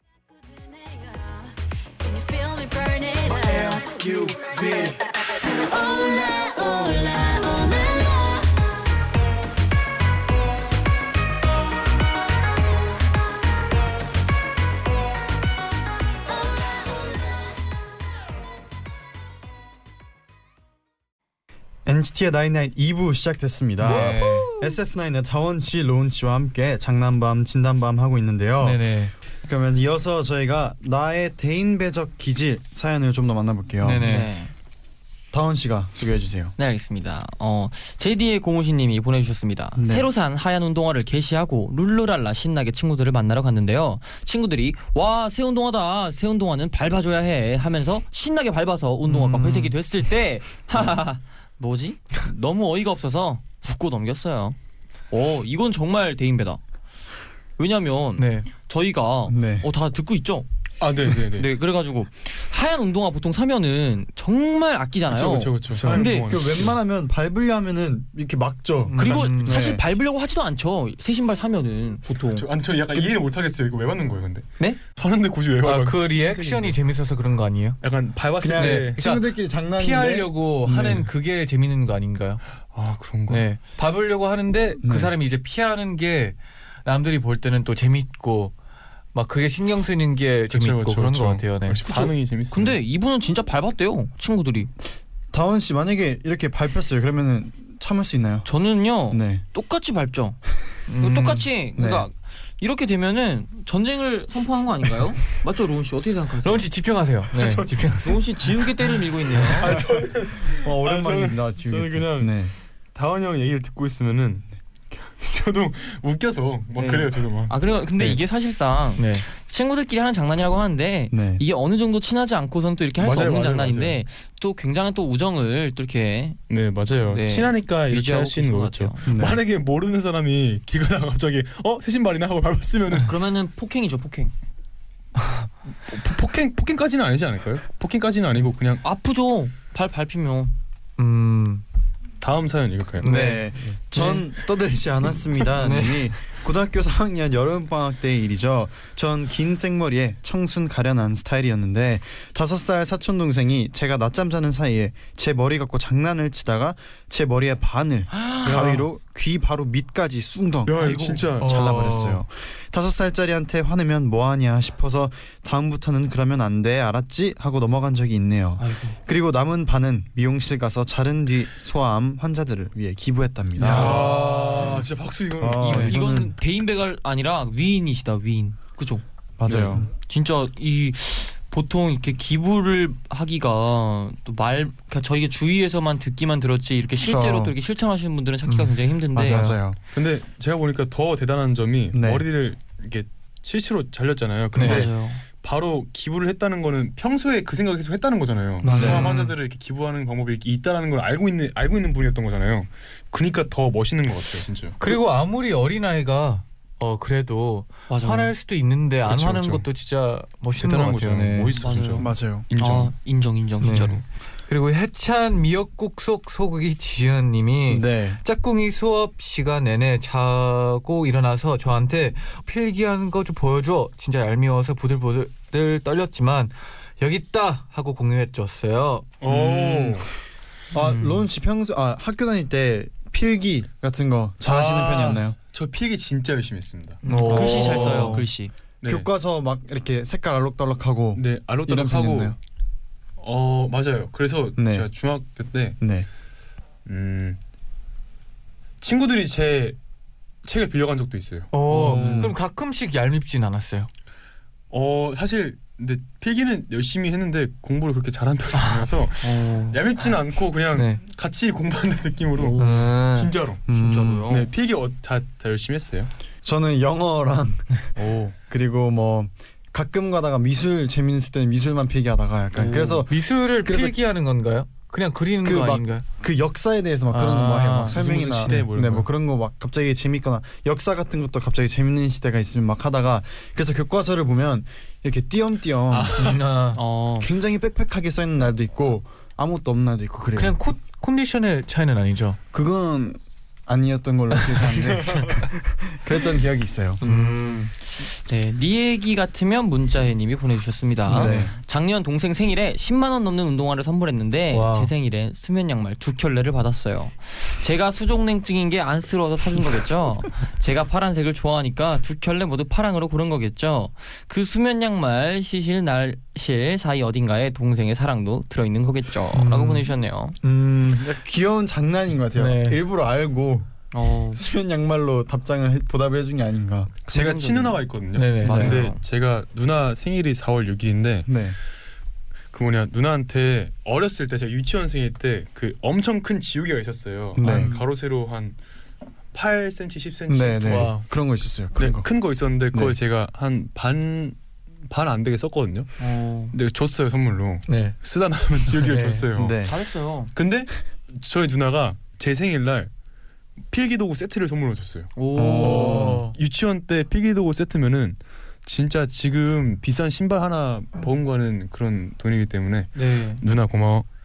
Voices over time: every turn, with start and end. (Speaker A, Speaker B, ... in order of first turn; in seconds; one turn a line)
Speaker A: 1.0-1.3
Speaker A: 2.0-4.4
Speaker A: 5.4-8.6
Speaker B: 21.9-28.9
Speaker C: 23.8-24.6
Speaker C: 28.6-29.1
Speaker B: 29.4-34.1
Speaker C: 33.8-34.3
Speaker D: 34.0-34.5
Speaker B: 35.3-36.5
Speaker D: 36.6-54.6
Speaker B: 39.8-40.1
Speaker C: 49.1-49.8
Speaker D: 55.1-56.6
Speaker D: 57.6-60.5
Speaker C: 58.2-58.5
Speaker B: 59.3-59.7
Speaker E: 60.8-61.5
Speaker D: 61.3-66.3
Speaker E: 65.1-66.8
Speaker B: 65.7-69.9
Speaker C: 68.9-69.6
Speaker D: 69.0-72.5
Speaker E: 69.0-69.3
Speaker E: 72.3-76.8
Speaker C: 75.6-77.8
Speaker E: 77.8-79.1
Speaker B: 78.4-81.1
Speaker C: 78.6-82.4
Speaker E: 82.7-83.5
Speaker C: 83.3-88.5
Speaker B: 84.8-85.1
Speaker C: 89.1-91.9
Speaker E: 90.5-92.8
Speaker D: 91.9-94.7
Speaker B: 95.3-98.5
Speaker D: 98.5-100.4
Speaker B: 99.1-99.4
Speaker C: 100.9-101.5
Speaker D: 101.0-106.7
Speaker B: 101.8-102.1
Speaker C: 106.4-108.5
Speaker E: 107.3-107.7
Speaker D: 108.0-109.7
Speaker E: 109.4-118.2
Speaker B: 109.8-112.5
Speaker D: 116.8-126.4
Speaker C: 119.0-119.2
Speaker B: 121.1-121.4
Speaker E: 123.0-124.0
Speaker E: 126.5-133.1
Speaker D: 127.1-129.1
Speaker B: 129.1-129.4
Speaker D: 133.0-134.3
Speaker E: 135.9-138.8
Speaker D: 138.8-140.5
Speaker C: 141.0-141.6
Speaker E: 142.2-143.4
Speaker C: 143.0-144.3
Speaker B: 143.0-174.9
Speaker C: 145.6-146.1
Speaker E: 158.4-158.9
Speaker E: 160.7-161.7
Speaker D: 160.8-161.3
Speaker C: 161.4-162.2
Speaker D: 168.6-169.0
Speaker E: 173.6-176.0
Speaker B: 175.4-176.3
Speaker D: 175.6-179.0
Speaker B: 179.4-179.9
Speaker E: 179.5-179.8
Speaker D: 179.7-189.5
Speaker B: 187.0-187.6
Speaker C: 188.5-189.6
Speaker B: 189.2-189.8
Speaker E: 189.9-204.8
Speaker B: 191.9-192.3
Speaker C: 194.6-194.9
Speaker D: 194.6-195.2
Speaker B: 198.6-199.2
Speaker C: 198.6-199.3
Speaker D: 198.7-199.2
Speaker C: 204.8-211.7
Speaker D: 207.9-208.3
Speaker E: 209.0-209.7
Speaker E: 210.6-212.9
Speaker D: 211.6-214.0
Speaker B: 212.0-212.5
Speaker C: 213.6-229.1
Speaker B: 217.7-218.2
Speaker E: 229.2-230.1
Speaker B: 229.3-230.1
Speaker B: 230.7-235.4
Speaker D: 230.8-231.2
Speaker E: 234.4-237.8
Speaker C: 237.0-238.2
Speaker B: 237.1-238.3
Speaker D: 237.1-238.5
Speaker E: 238.8-239.1
Speaker B: 238.8-242.4
Speaker E: 241.2-242.4
Speaker E: 243.2-245.8
Speaker B: 244.6-244.9
Speaker B: 245.8-246.1
Speaker E: 246.9-247.4
Speaker E: 248.8-249.8
Speaker E: 250.4-252.3
Speaker C: 251.5-253.9
Speaker B: 251.7-252.4
Speaker E: 254.7-263.6
Speaker D: 259.2-259.8
Speaker C: 260.7-261.0
Speaker D: 262.4-264.5
Speaker C: 262.6-263.1
Speaker B: 263.7-264.2
Speaker E: 264.3-266.1
Speaker B: 266.4-267.7
Speaker E: 268.0-268.3
Speaker B: 268.4-274.0
Speaker C: 272.6-276.1
Speaker B: 275.4-286.4
Speaker C: 277.1-278.7
Speaker E: 277.9-279.1
Speaker E: 285.9-286.4
Speaker C: 286.1-286.8
Speaker D: 286.7-287.3
Speaker B: 287.2-290.6
Speaker C: 290.4-292.4
Speaker B: 292.5-297.0
Speaker C: 294.4-295.4
Speaker D: 297.0-320.4
Speaker C: 297.0-297.7
Speaker C: 301.1-301.5
Speaker B: 301.1-301.5
Speaker C: 304.5-304.9
Speaker C: 319.3-319.9
Speaker B: 320.4-323.7
Speaker C: 322.4-322.8
Speaker D: 323.9-324.4
Speaker B: 324.3-327.0
Speaker E: 327.1-331.3
Speaker D: 327.1-327.8
Speaker C: 328.1-328.8
Speaker D: 328.4-329.0
Speaker B: 328.5-328.8
Speaker B: 331.3-331.6
Speaker E: 332.5-338.6
Speaker B: 337.4-337.8
Speaker D: 337.4-337.9
Speaker E: 339.3-341.1
Speaker B: 340.3-342.1
Speaker C: 340.6-341.1
Speaker E: 341.8-345.9
Speaker D: 346.0-346.6
Speaker E: 346.5-349.6
Speaker C: 347.7-348.0
Speaker C: 348.7-349.3
Speaker B: 349.4-349.8
Speaker D: 349.6-350.3
Speaker E: 350.4-352.9
Speaker E: 353.7-364.1
Speaker D: 355.2-356.2
Speaker B: 355.4-356.3
Speaker C: 355.6-356.4
Speaker D: 362.9-363.4